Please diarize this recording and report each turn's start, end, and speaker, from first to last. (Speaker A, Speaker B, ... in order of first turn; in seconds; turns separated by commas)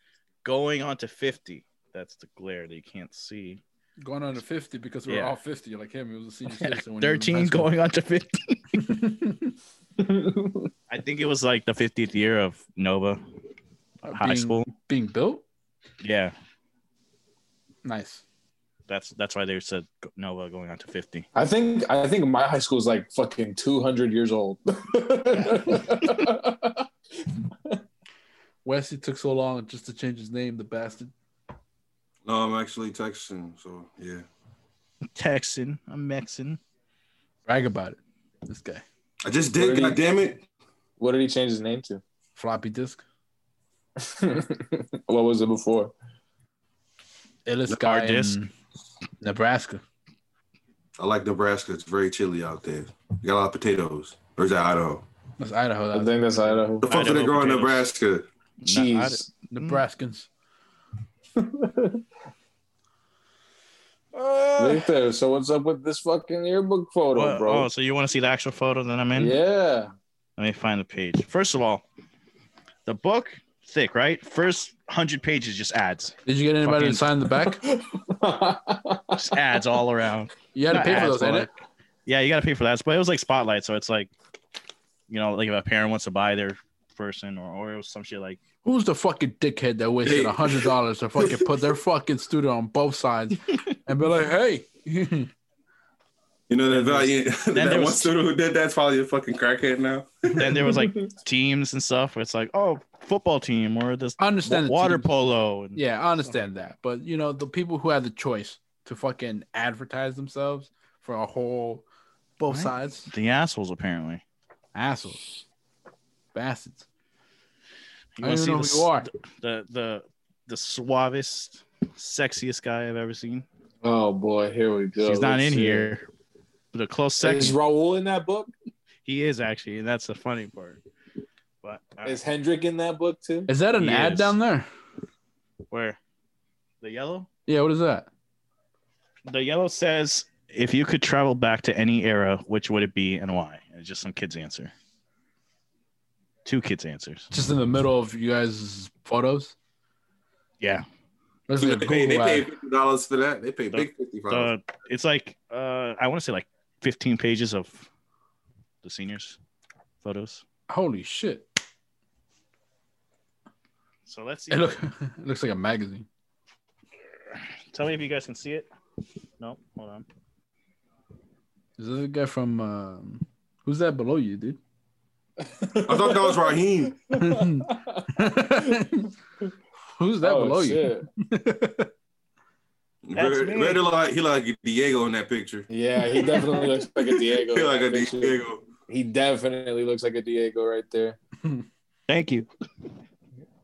Speaker A: 0.4-3.6, Speaker B: 4.0-7.7, Speaker A: 5.0-5.3, Speaker A: 6.5-8.8, Speaker B: 8.7-9.5, Speaker C: 10.0-10.7, Speaker A: 10.9-13.2, Speaker A: 14.0-14.7, Speaker B: 14.0-15.4, Speaker A: 16.0-16.3, Speaker B: 17.8-18.2, Speaker A: 18.9-21.3, Speaker C: 21.3-27.8, Speaker B: 25.3-25.8, Speaker A: 25.9-26.3, Speaker B: 28.6-31.1, Speaker D: 32.2-34.2, Speaker A: 35.1-36.6, Speaker B: 37.5-38.8, Speaker D: 39.2-40.4, Speaker C: 39.5-40.0, Speaker C: 41.0-42.0, Speaker B: 42.4-43.0, Speaker C: 44.0-45.9, Speaker B: 47.5-48.5, Speaker A: 47.8-48.4, Speaker B: 49.2-49.8, Speaker D: 51.0-55.0, Speaker B: 55.4-56.7, Speaker C: 55.9-56.9, Speaker D: 56.8-58.2, Speaker A: 56.9-57.9, Speaker A: 58.6-59.8, Speaker C: 58.6-59.3, Speaker B: 59.5-60.3, Speaker C: 61.4-62.0, Speaker B: 64.5-64.8, Speaker C: 64.6-67.7, Speaker A: 67.1-69.4, Speaker C: 69.2-69.9, Speaker A: 70.4-71.8, Speaker A: 72.8-77.0, Speaker B: 76.2-77.6, Speaker C: 77.3-79.2, Speaker A: 79.1-81.5, Speaker B: 80.5-81.5, Speaker A: 82.0-84.1, Speaker A: 85.1-88.4, Speaker B: 88.6-95.3, Speaker D: 90.0-91.5, Speaker D: 96.5-100.3, Speaker B: 96.7-97.1, Speaker A: 97.5-98.1, Speaker A: 100.3-105.8, Speaker C: 100.4-101.0, Speaker B: 104.2-105.1, Speaker B: 105.7-111.8, Speaker B: 112.4-113.1, Speaker A: 112.4-114.2, Speaker B: 114.7-115.2, Speaker B: 116.3-116.8, Speaker A: 118.2-123.5, Speaker B: 118.2-119.1, Speaker C: 123.8-125.9, Speaker A: 125.0-126.1, Speaker A: 126.7-127.6, Speaker C: 127.2-128.5, Speaker A: 129.0-130.8, Speaker A: 131.6-132.2, Speaker C: 132.0-133.5, Speaker B: 133.5-134.7, Speaker A: 133.8-134.3, Speaker A: 135.7-136.0, Speaker A: 136.8-137.3, Speaker B: 137.5-138.1, Speaker A: 139.3-144.7, Speaker A: 146.4-147.3, Speaker B: 147.3-149.5, Speaker B: 151.5-152.5, Speaker D: 151.6-154.5, Speaker A: 153.7-157.9, Speaker A: 158.8-159.4, Speaker A: 160.0-160.4, Speaker B: 160.7-161.5, Speaker A: 164.1-164.8, Speaker B: 164.5-166.1, Speaker A: 167.3-168.7, Speaker A: 169.4-170.1, Speaker B: 171.8-174.6, Speaker C: 175.4-178.9, Speaker D: 175.8-176.9, Speaker B: 177.1-179.1, Speaker B: 179.9-181.9, Speaker C: 180.2-181.1, Speaker D: 183.1-185.7, Speaker A: 183.1-183.8, Speaker C: 185.7-191.2, Speaker D: 186.3-188.7, Speaker A: 192.1-192.5